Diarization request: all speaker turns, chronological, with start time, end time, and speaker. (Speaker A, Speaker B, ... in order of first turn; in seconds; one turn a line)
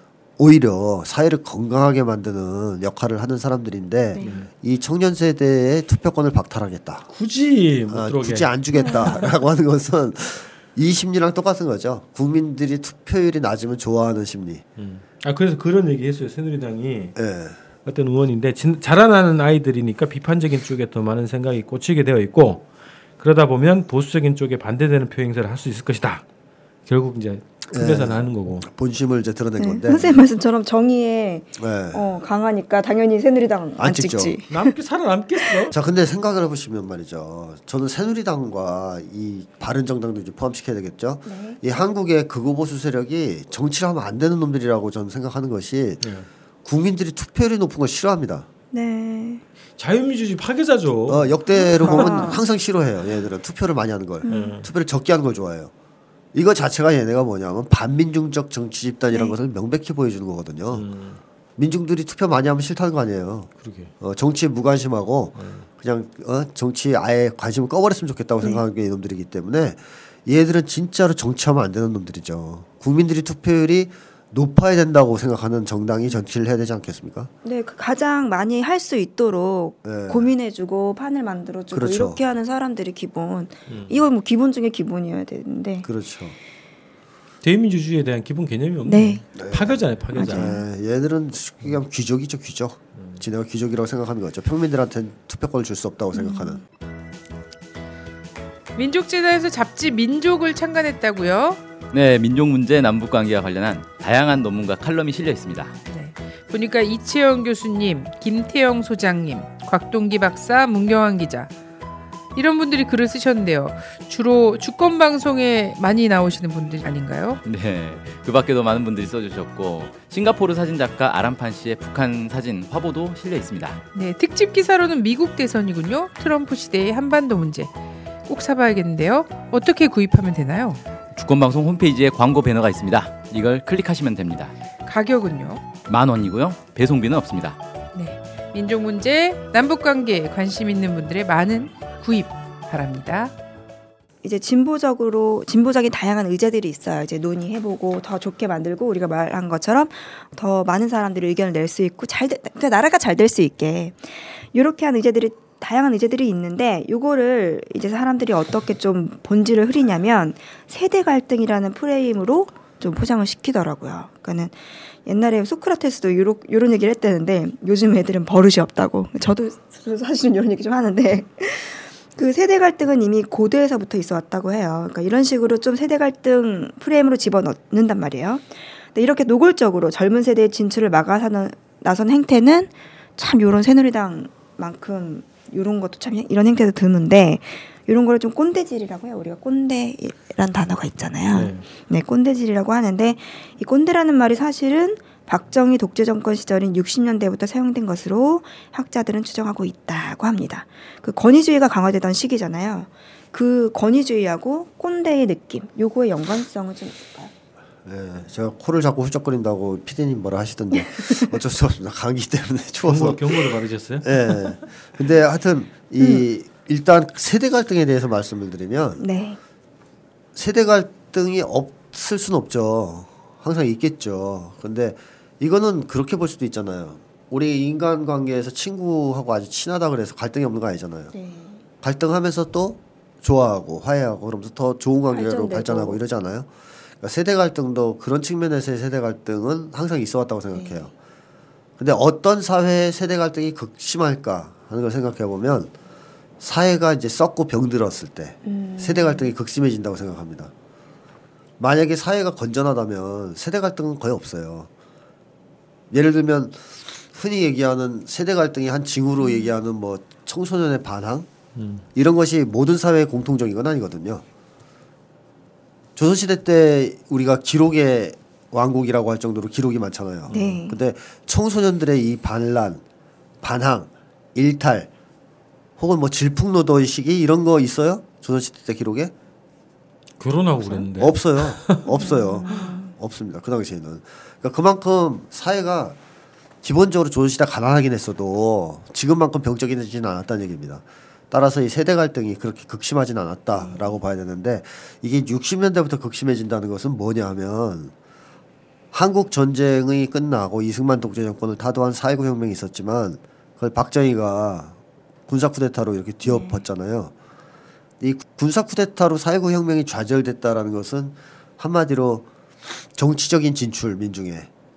Speaker A: 0.4-7.1
Speaker B: 4.1-4.4
Speaker C: 4.2-4.5
Speaker C: 7.1-9.1
Speaker A: 7.9-14.6
Speaker B: 8.8-9.1
Speaker C: 14.8-17.1
Speaker A: 17.1-17.6
Speaker C: 17.9-22.7
Speaker C: 23.2-26.2
Speaker C: 26.9-28.7
Speaker A: 27.7-30.3
Speaker B: 29.6-34.7
Speaker A: 31.6-32.0
Speaker A: 33.8-34.4
Speaker C: 34.5-35.8
Speaker A: 35.7-46.0
Speaker B: 41.2-41.6
Speaker C: 46.0-46.3
Speaker A: 46.6-48.5
Speaker B: 48.7-49.4
Speaker C: 49.8-52.1
Speaker A: 51.1-55.7
Speaker B: 51.5-52.4
Speaker B: 54.2-54.6
Speaker C: 54.3-54.7
Speaker A: 56.3-60.9
Speaker C: 60.7-61.2
Speaker A: 61.6-77.3
Speaker C: 63.6-63.9
Speaker C: 65.3-65.7
Speaker B: 77.4-85.9
Speaker A: 79.8-80.3
Speaker A: 81.7-82.2
Speaker C: 83.7-84.0
Speaker A: 85.8-86.4
Speaker C: 87.4-90.6
Speaker B: 88.9-89.2
Speaker A: 89.3-96.6
Speaker B: 90.2-90.6
Speaker C: 93.0-93.2
Speaker B: 96.1-96.6
Speaker D: 98.8-101.6
Speaker E: 101.9-105.7
Speaker D: 105.9-111.5
Speaker D: 112.3-117.4
Speaker E: 117.4-123.8
Speaker D: 124.0-127.7
Speaker D: 128.2-130.8
Speaker E: 131.1-134.5
Speaker D: 134.8-135.7
Speaker E: 135.8-137.6
Speaker D: 137.9-143.3
Speaker B: 144.2-207.3
Speaker C: 191.3-191.7
Speaker A: 207.8-219.0
Speaker B: 210.8-211.3
Speaker C: 212.8-214.6
Speaker B: 216.0-216.3
Speaker B: 219.0-219.4
Speaker A: 220.3-231.1
Speaker B: 231.1-231.6
Speaker A: 231.8-236.5
Speaker B: 235.1-236.0
Speaker A: 237.0-240.9
Speaker B: 240.5-240.9
Speaker A: 241.8-245.7
Speaker A: 246.4-250.5
Speaker B: 248.4-249.3
Speaker A: 251.6-254.7
Speaker A: 255.9-261.3
Speaker B: 259.2-259.5
Speaker C: 261.6-261.9
Speaker A: 261.9-264.2
Speaker A: 266.0-272.8
Speaker C: 270.3-270.6
Speaker B: 270.3-270.8
Speaker A: 273.4-274.9
Speaker A: 275.8-279.1
Speaker C: 280.2-282.0
Speaker A: 281.0-286.0
Speaker B: 281.9-282.9
Speaker A: 286.6-297.9
Speaker B: 293.5-294.0
Speaker A: 298.9-304.8
Speaker A: 305.3-307.1
Speaker B: 306.2-306.6
Speaker A: 308.0-314.5